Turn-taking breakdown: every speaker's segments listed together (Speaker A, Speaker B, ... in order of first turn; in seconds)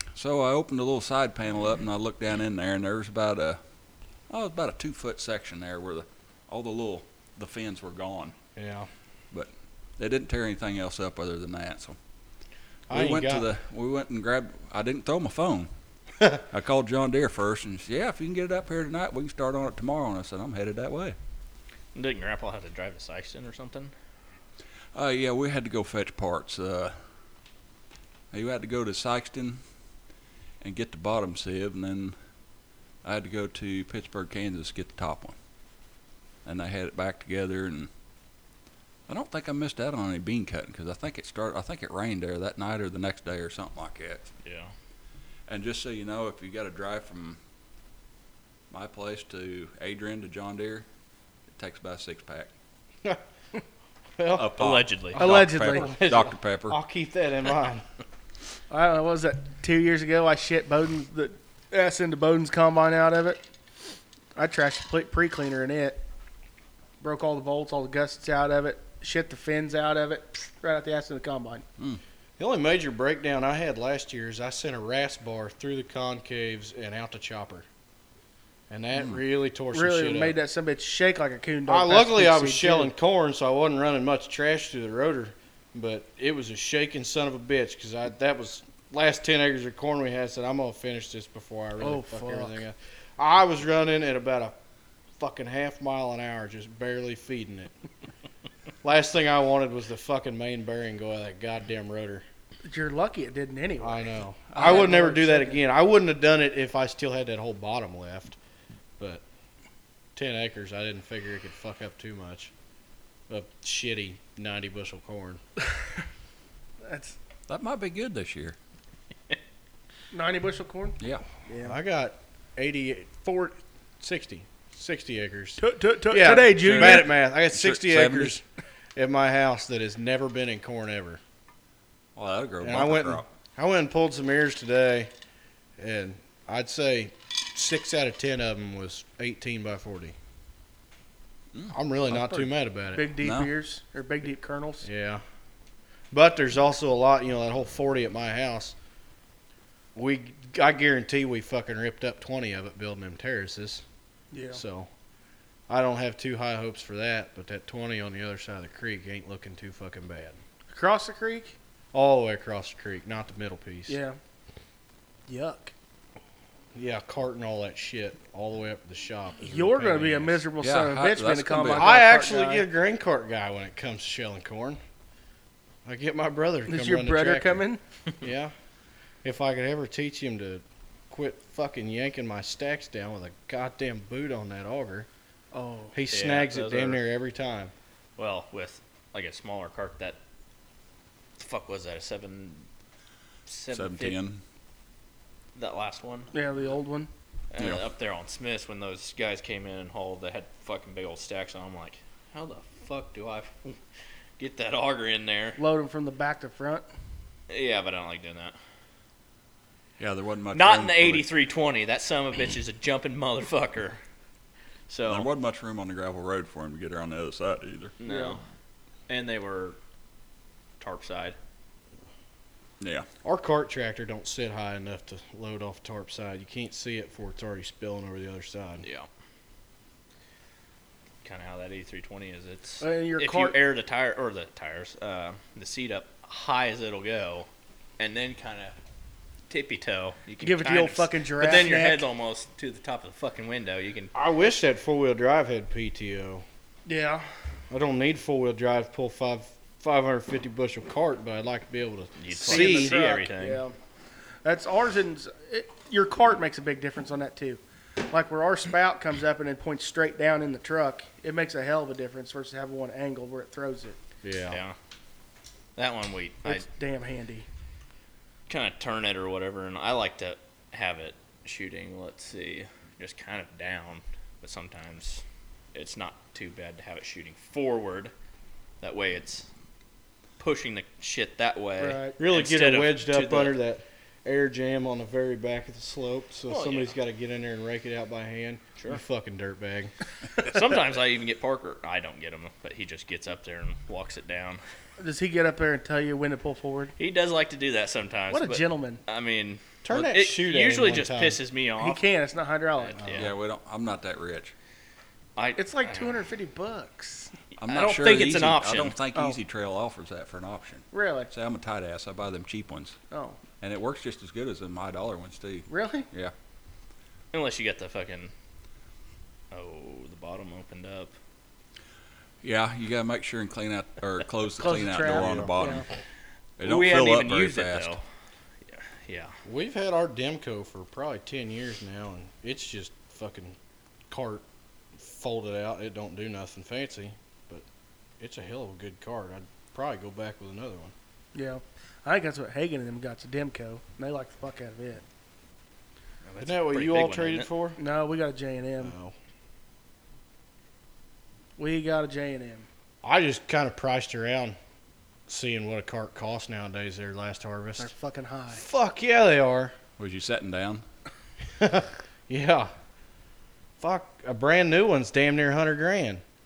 Speaker A: 0.1-3.6, 4.3-8.3, 9.3-12.0, 12.9-15.7, 16.4-21.2, 24.9-26.9, 28.3-29.6, 30.6-32.1, 33.0-35.4, 36.5-37.9, 39.1-44.3, 45.5-47.4, 48.7-50.9, 51.5-52.5, 54.3-56.8, 104.5-105.0, 117.5-118.6, 126.5-128.4, 132.2-133.3, 143.2-143.5, 170.6-171.9, 193.7-194.4, 210.0-211.3, 215.1-217.9, 222.8-223.1, 303.1-304.5, 307.6-313.0, 313.6-316.3, 322.4-325.9, 326.6-328.0, 360.0-360.8
Speaker B: 8.6-8.9, 12.9-13.5, 54.2-57.9, 72.4-77.7, 78.7-80.4, 81.7-94.5, 95.2-97.7, 98.8-102.2, 103.8-108.4, 110.2-112.5, 113.3-115.4, 121.6-128.4, 129.0-131.2, 132.6-135.1, 135.8-140.2, 141.7-143.1, 144.8-145.2, 146.1-148.8, 149.9-153.8, 154.5-154.9, 155.7-160.4, 161.9-164.0, 166.8-170.4, 171.8-174.8, 175.8-177.6, 178.2-178.5, 179.2-185.1, 185.9-187.7, 223.2-228.8, 244.1-246.4, 247.7-253.0, 264.2-264.6, 282.2-289.9, 299.8-301.4, 325.1-325.5, 329.4-333.6, 334.1-334.4, 334.9-337.6, 338.2-340.9, 346.4-347.8, 348.8-349.1, 353.0-354.6, 355.3-357.9, 358.5-359.7, 361.6-362.7, 363.8-366.2
Speaker C: 21.9-23.9, 44.4-44.7, 54.6-55.2, 186.1-187.0, 188.2-190.2, 191.4-192.7, 193.5-194.2, 195.6-196.3, 197.5-203.8, 204.4-205.6, 207.5-208.6, 210.5-214.0, 214.9-215.3, 218.0-218.4, 219.1-219.8, 220.8-221.4, 228.8-229.1, 231.2-237.5, 238.0-238.8, 239.5-244.1, 252.2-253.6, 264.5-264.8, 265.8-266.6, 268.5-275.2, 275.7-278.1, 278.8-279.5, 280.4-283.6, 286.5-286.9, 290.4-294.6, 297.0-302.0, 302.8-303.3, 305.4-306.1, 307.6-308.9, 317.3-318.3, 319.5-321.1, 326.6-328.0, 328.7-329.3, 346.2-347.5
Speaker D: 55.2-55.9, 58.7-63.4, 64.4-66.0, 67.0-71.6, 79.7-82.9, 91.8-92.6, 102.7-105.6, 116.8-117.2, 120.1-121.8, 125.6-127.1, 142.2-144.9, 154.3-154.6, 160.7-161.6, 163.9-164.2, 165.3-165.7, 169.4-172.7, 176.7-177.8, 185.5-185.9, 196.3-197.1, 205.6-206.9, 218.1-218.4, 232.8-233.6, 240.4-242.0, 246.9-247.3, 252.4-253.8, 254.4-264.0, 266.4-267.5, 281.8-282.2, 295.0-296.9, 298.3-299.0, 301.8-303.2, 305.6-307.3, 310.9-311.3, 313.1-313.4, 315.7-316.1, 324.6-325.9, 341.3-345.0, 347.8-348.9, 351.6-352.7, 357.8-358.6